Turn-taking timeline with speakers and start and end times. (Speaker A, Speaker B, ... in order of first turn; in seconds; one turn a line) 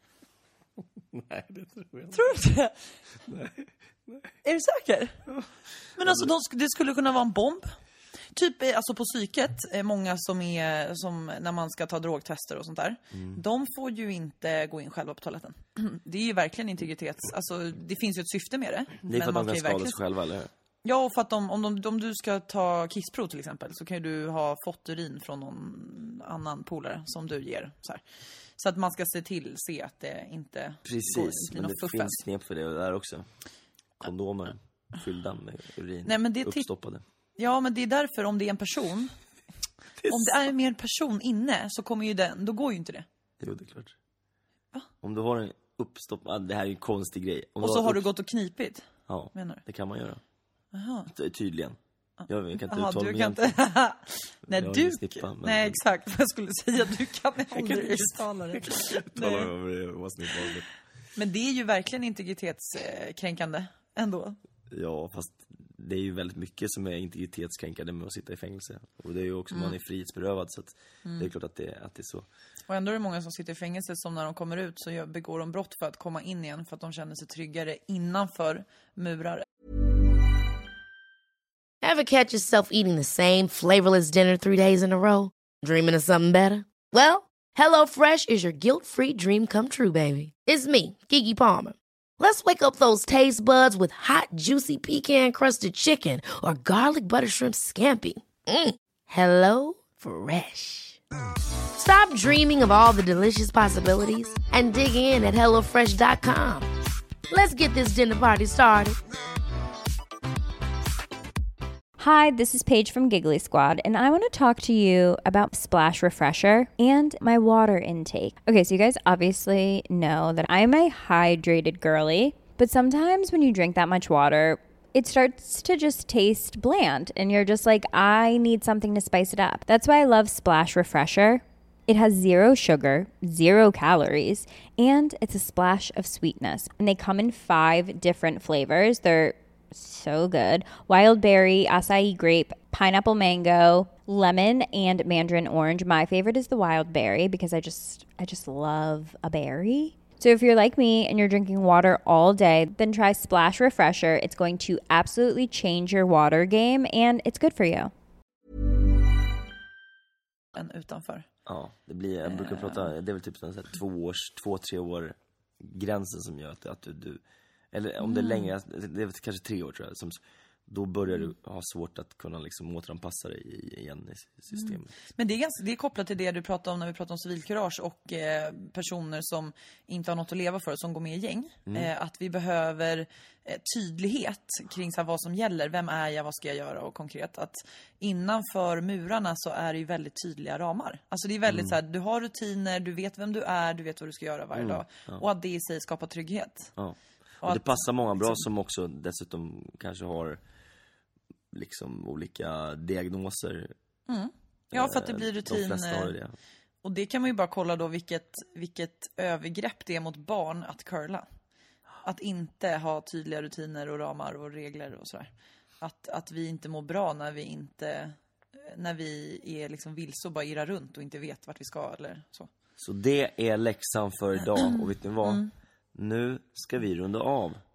Speaker A: 1.1-2.2
Speaker B: 2.1-2.8
Speaker A: 3.3-4.3
Speaker B: 4.4-5.2
Speaker B: 6.0-7.7
Speaker B: 8.3-20.0
Speaker A: 13.1-13.4
Speaker A: 19.0-20.5
Speaker B: 20.8-28.0
Speaker B: 28.6-32.2
Speaker A: 30.9-33.3
Speaker A: 34.0-37.0
Speaker B: 36.1-36.7
Speaker B: 37.4-39.1
Speaker A: 40.0-40.5
Speaker B: 40.1-43.1
Speaker A: 43.4-43.9
Speaker A: 45.0-48.1
Speaker B: 47.6-49.6
Speaker A: 49.1-50.2
Speaker B: 50.7-51.1
Speaker A: 51.1-51.8
Speaker B: 52.2-59.5
Speaker A: 52.3-53.6
Speaker A: 54.5-55.8
Speaker A: 57.5-60.7
Speaker B: 61.2-64.4
Speaker A: 64.7-72.3
Speaker B: 69.5-69.8
Speaker B: 71.0-71.3
Speaker B: 72.7-79.5
Speaker C: 81.8-101.0
Speaker C: 101.8-106.7
Speaker C: 107.3-109.0
Speaker D: 112.0-157.9
Speaker B: 160.6-161.3
Speaker A: 161.5-167.2
Speaker B: 162.3-162.9
Speaker A: 167.7-174.9
Speaker B: 168.0-168.5
Speaker B: 174.5-196.7
Speaker A: 191.5-191.8
Speaker A: 194.5-195.2
Speaker A: 196.8-200.4
Speaker B: 197.4-198.4
Speaker A: 201.5-203.7
Speaker B: 204.1-206.1
Speaker A: 204.7-206.3
Speaker B: 206.8-211.3
Speaker B: 212.0-215.3
Speaker B: 215.8-222.5
Speaker A: 222.8-225.4
Speaker B: 224.6-225.5
Speaker A: 225.9-227.6